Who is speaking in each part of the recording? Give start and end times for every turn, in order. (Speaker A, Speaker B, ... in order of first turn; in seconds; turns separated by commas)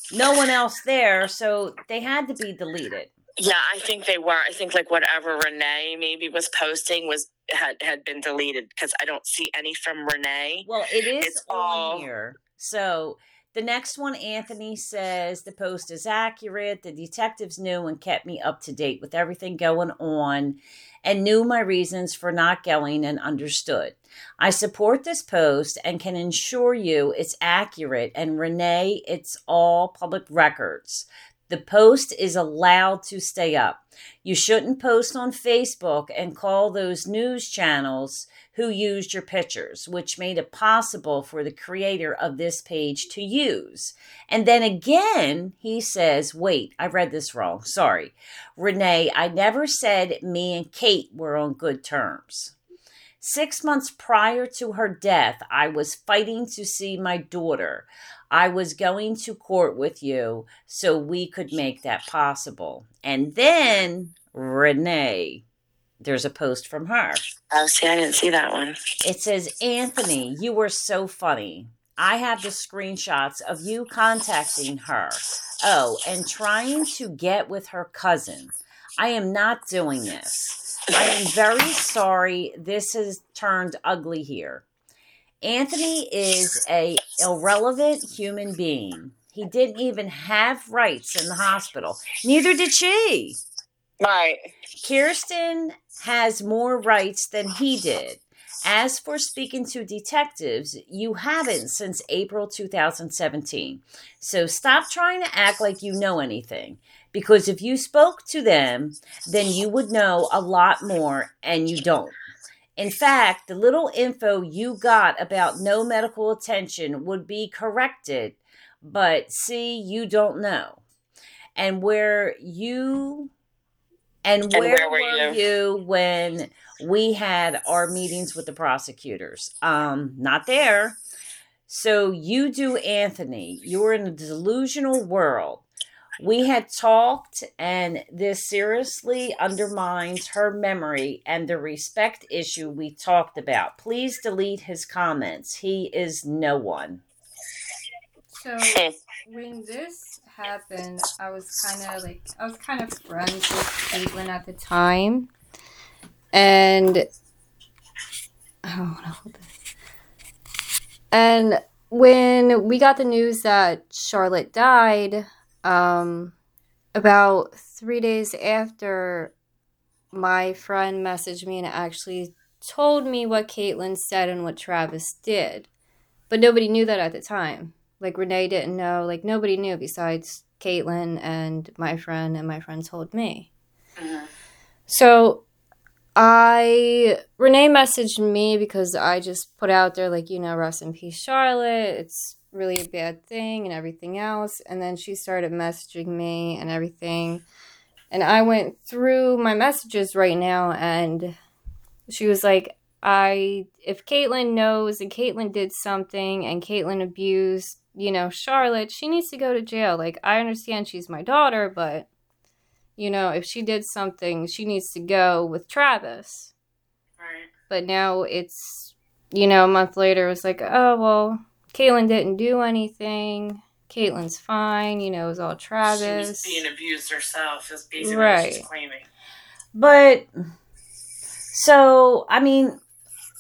Speaker A: 0.1-3.1, Speaker B: 3.4-10.7, Speaker A: 10.6-52.5, Speaker B: 11.2-12.1, Speaker A: 53.2-65.4, Speaker A: 66.0-67.2, Speaker B: 67.5-68.8, Speaker A: 69.0-84.6, Speaker A: 85.4-93.4, Speaker B: 94.0-94.4, Speaker A: 94.8-112.2, Speaker A: 112.8-120.8, Speaker A: 121.5-123.3, Speaker A: 124.2-131.0, Speaker B: 124.5-125.4, Speaker A: 131.7-135.7, Speaker A: 136.2-147.0, Speaker C: 148.3-155.3, Speaker B: 148.6-148.9, Speaker C: 156.3-157.1, Speaker C: 158.6-159.5, Speaker C: 161.1-166.3, Speaker C: 166.9-169.3, Speaker C: 170.1-175.7, Speaker C: 176.3-183.5, Speaker B: 184.0-184.3, Speaker C: 184.9-185.4, Speaker C: 186.2-197.4, Speaker C: 198.1-201.3, Speaker C: 202.1-212.1, Speaker C: 213.0-216.5, Speaker B: 217.2-217.5, Speaker C: 217.7-226.6, Speaker B: 225.8-229.1, Speaker C: 228.0-228.7, Speaker A: 229.7-230.3, Speaker A: 231.5-232.8